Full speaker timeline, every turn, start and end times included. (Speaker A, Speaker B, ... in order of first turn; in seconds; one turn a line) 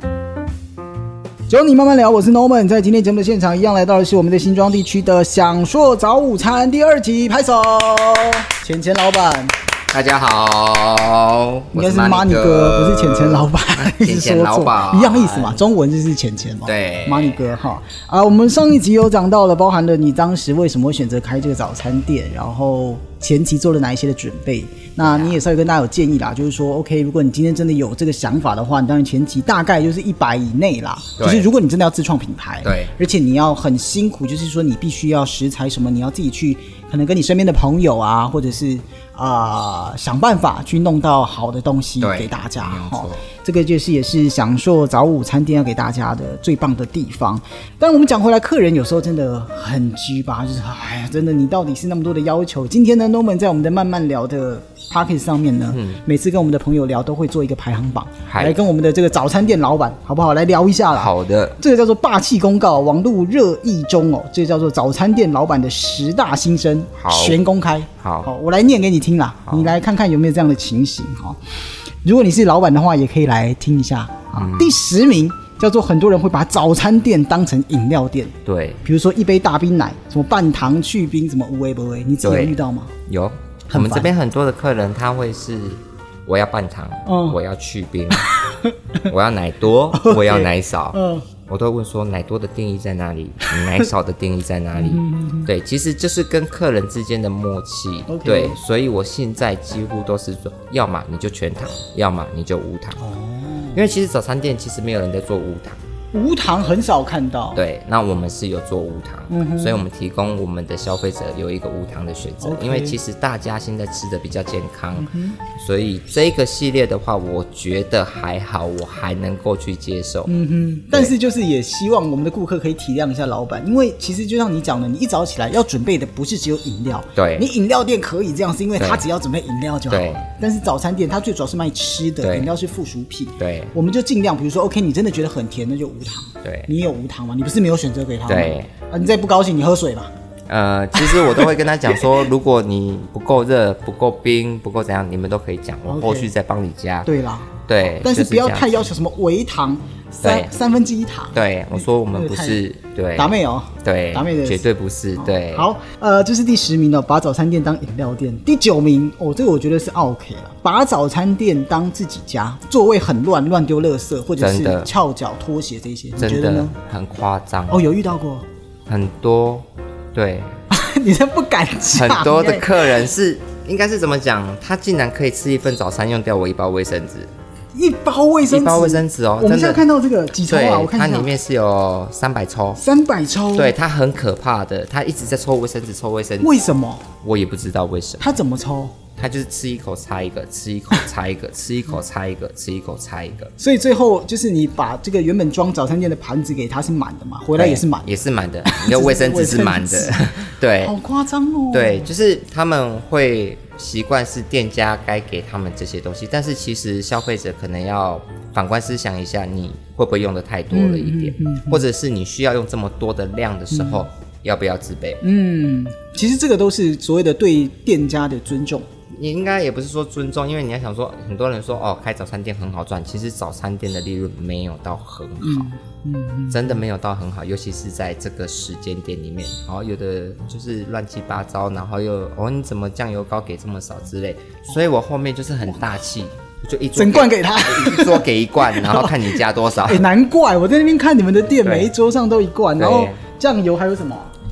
Speaker A: 1.5-9.5
Speaker B: 9.9-15.6
Speaker A: 11.7-71.4
Speaker B: 16.6-17.6
Speaker B: 25.0-25.4
Speaker B: 31.2-31.5
Speaker B: 32.6-32.9
Speaker B: 42.0-43.2
Speaker B: 55.7-56.0
Speaker B: 58.3-58.6
Speaker B: 60.9-61.6
Speaker B: 67.0-67.4
Speaker B: 68.0-68.3
Speaker B: 69.5-69.8
Speaker A: 72.0-82.9
Speaker B: 74.3-74.8
Speaker B: 78.5-78.8
Speaker B: 82.2-88.3
Speaker A: 83.7-84.1
Speaker A: 87.1-87.4
Speaker A: 88.3-88.7
Speaker B: 89.1-103.0
Speaker A: 90.0-91.3
Speaker A: 93.5-93.8
Speaker A: 94.8-95.5
Speaker A: 98.1-98.6
Speaker A: 103.0-103.9
Speaker B: 103.7-105.8
Speaker A: 106.1-107.6
Speaker B: 107.5-120.3
Speaker A: 109.3-109.9
Speaker A: 112.4-113.0
Speaker A: 115.0-115.4
Speaker A: 120.3-140.1
Speaker B: 127.2-127.5
Speaker B: 128.8-129.1
Speaker B: 129.9-130.2
Speaker B: 132.2-132.5
Speaker B: 133.4-133.7
Speaker B: 136.4-136.7
Speaker B: 138.3-138.7
Speaker B: 140.5-147.1
Speaker A: 141.0-141.5
Speaker A: 145.8-146.3
Speaker A: 147.0-152.6
Speaker B: 147.7-148.8
Speaker B: 150.2-150.5
Speaker B: 151.3-155.7
Speaker A: 153.2-154.6
Speaker A: 155.2-166.7
Speaker B: 164.4-164.9
Speaker B: 166.2-167.8
Speaker A: 167.7-168.4
Speaker B: 168.9-170.5
Speaker A: 170.7-172.7
Speaker B: 171.9-177.3
Speaker A: 177.7-181.3
Speaker B: 178.5-179.8
Speaker B: 180.4-182.8
Speaker A: 182.8-183.8
Speaker B: 183.5-186.5
Speaker A: 186.4-187.1
Speaker B: 187.2-188.3
Speaker A: 188.2-188.9
Speaker B: 189.2-193.5
Speaker A: 193.6-198.1
Speaker B: 197.5-201.0
Speaker A: 198.6-202.1
Speaker B: 201.7-215.2
Speaker A: 210.7-211.8
Speaker A: 213.7-214.1
Speaker A: 215.2-218.9
Speaker B: 219.1-225.7
Speaker A: 225.4-226.8
Speaker B: 226.5-240.1
Speaker A: 236.9-244.3
Speaker B: 241.6-241.9
Speaker B: 242.8-243.2